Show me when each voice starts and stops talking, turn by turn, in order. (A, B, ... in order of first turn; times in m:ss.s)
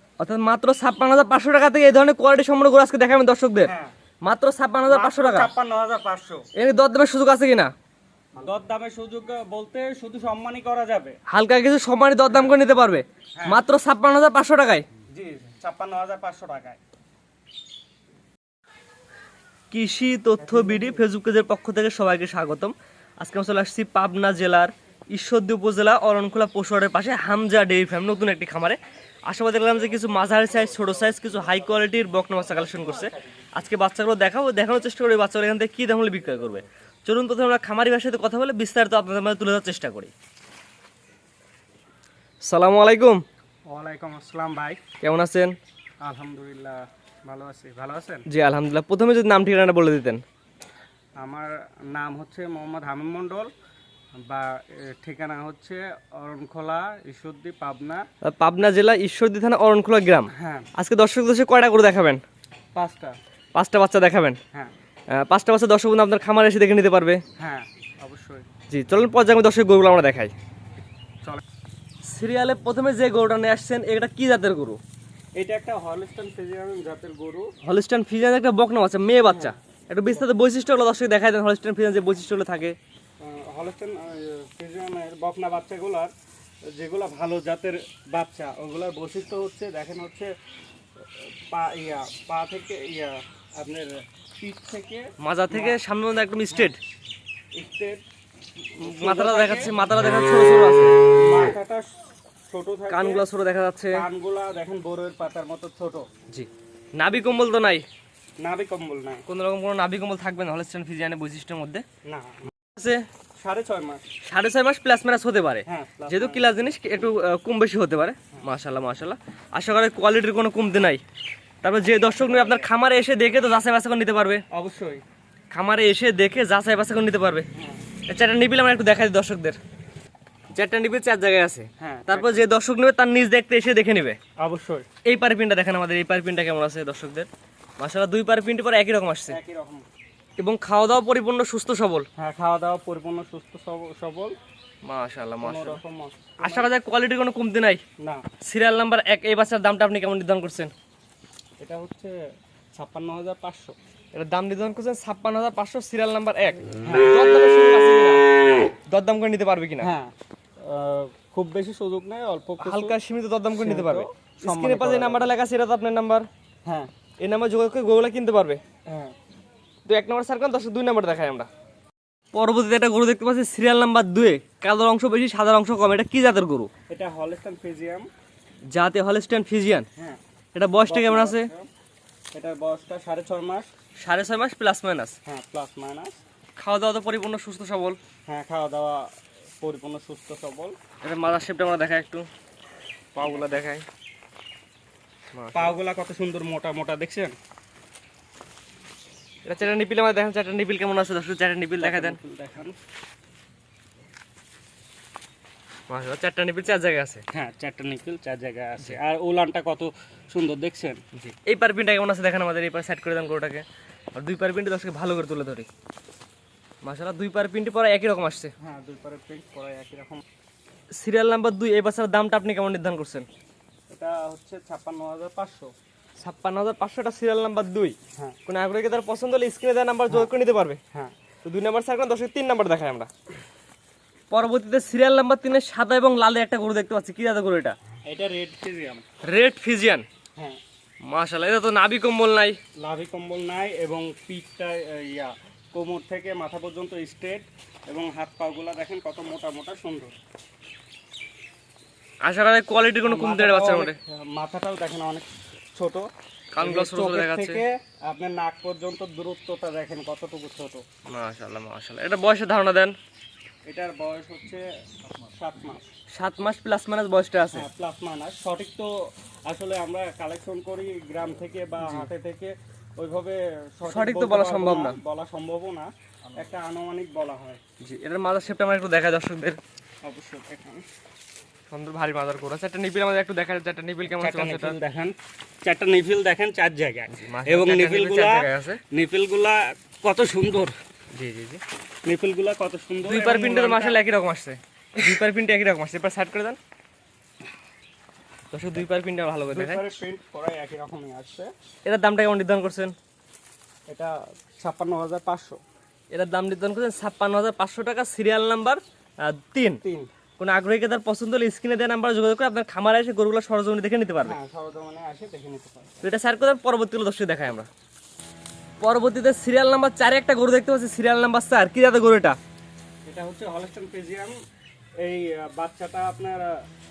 0:00.2-0:03.7 A
0:03.6-0:03.9 B
0:04.2-0:05.5 A
0:04.9-0:06.4 B
0:06.6-0:07.7 A
0:08.4-0:11.2 B
0:11.3-0:14.8 A
0:12.3-0:12.6 B
0:15.1-0:16.8 B
0:19.7-0:40.1 A
0:20.4-0:21.0 B
0:42.4-0:43.2 A
0:43.7-0:44.8 B
0:45.0-0:45.5 A
0:46.0-0:48.2 B
0:48.3-0:50.2 A
0:51.2-0:53.5 B
0:54.3-0:58.0 B
0:58.2-1:02.2 A
1:00.3-1:00.7 B
1:02.7-1:03.2 B
1:03.5-1:04.4 A
1:05.1-1:07.2 A
1:07.4-1:08.4 B
1:08.7-1:10.3 A
1:12.0-1:14.8 A
1:15.4-1:17.5 B
1:17.6-1:22.8 A
1:19.3-1:19.5 B
1:23.2-1:26.1 B
1:26.7-1:30.3 B
1:31.5-1:35.8 B
1:35.2-1:36.8 A
1:37.6-1:38.0 B
1:38.7-1:39.7 B
1:38.8-1:40.9 A
1:41.2-1:41.9 B
1:42.5-1:43.2 B
1:42.9-1:44.0 A
1:43.9-1:46.1 B
1:46.3-1:47.8 A
1:48.4-1:49.2 B
1:49.3-1:51.8 A
1:52.0-1:52.5 B
1:52.7-1:53.0 A
1:53.4-1:54.1 B
1:54.2-2:01.0 A
1:55.7-1:56.5 B
2:01.6-2:04.4 A
2:02.0-2:02.7 B
2:04.5-2:05.0 B
2:05.5-2:07.5 A
2:07.5-2:07.8 B
2:08.1-2:09.6 A
2:10.6-2:14.2 A
2:11.8-2:12.4 B
2:14.4-2:14.9 B
2:15.0-2:17.3 A
2:17.8-2:19.4 A
2:19.3-2:19.8 B
2:20.4-2:22.1 A
2:22.2-2:24.3 B
2:24.8-2:25.8 A
2:25.4-2:26.7 B
2:26.4-2:27.8 A
2:28.4-2:30.7 A
2:31.6-2:32.1 B
2:32.8-2:33.7 B
2:34.1-2:38.2 A
2:36.8-2:37.1 B
2:38.9-2:39.9 A
2:39.8-2:40.1 B
2:40.6-2:42.9 B
2:42.6-2:46.3 A
2:43.6-2:45.3 B
2:47.2-2:48.6 A
2:48.9-2:49.1 B
2:49.9-2:51.5 A
2:52.3-2:56.7 A
2:56.9-2:58.1 B
2:58.7-2:59.9 A
3:00.5-3:01.5 A
3:00.9-3:01.7 B
3:02.3-3:03.7 B
3:04.0-3:05.2 A
3:05.2-3:06.2 B
3:06.6-3:08.0 A
3:08.3-3:09.1 B
3:09.6-3:10.7 B
3:11.0-3:12.3 A
3:13.2-3:13.8 A
3:13.2-3:13.6 B
3:15.3-3:15.7 A
3:15.5-3:17.3 B
3:19.4-3:22.2 A
3:21.8-3:22.8 B
3:25.9-3:27.2 A
3:27.3-3:31.0 B
3:31.1-3:35.7 A
3:36.8-3:38.5 A
3:38.6-3:40.2 B
3:41.0-3:43.3 A
3:43.9-3:45.7 B
3:46.2-3:50.8 A
3:51.4-3:53.1 A
3:54.3-3:57.8 A
3:58.1-3:59.0 B
3:59.2-4:00.0 A
4:01.0-4:02.6 A
4:02.8-4:10.1 B
4:12.2-4:14.0 A
4:13.0-4:16.1 B
4:16.5-4:17.6 A
4:16.6-4:20.8 B
4:21.1-4:22.9 A
4:23.7-4:24.6 B
4:25.3-4:25.8 B
4:26.2-4:27.7 A
4:27.5-4:28.9 B
4:29.5-4:37.6 B
4:31.8-4:32.1 A
4:33.8-4:35.0 A
4:37.8-4:39.6 A
4:40.0-4:40.8 B
4:41.7-4:44.8 A
4:44.1-4:45.1 B
4:45.6-4:50.7 B
4:47.1-4:48.8 A
4:51.1-4:51.6 A
4:52.0-4:54.0 B
4:53.0-4:56.6 A
4:58.5-4:59.8 A
4:59.5-5:01.5 B
5:01.8-5:02.9 A
5:03.9-5:05.6 B
5:06.1-5:09.8 A
5:09.8-5:10.1 B
5:10.4-5:14.4 A
5:14.2-5:16.0 B
5:16.0-5:17.7 A
5:18.8-5:22.4 A
5:23.1-5:24.4 B
5:25.0-5:26.5 B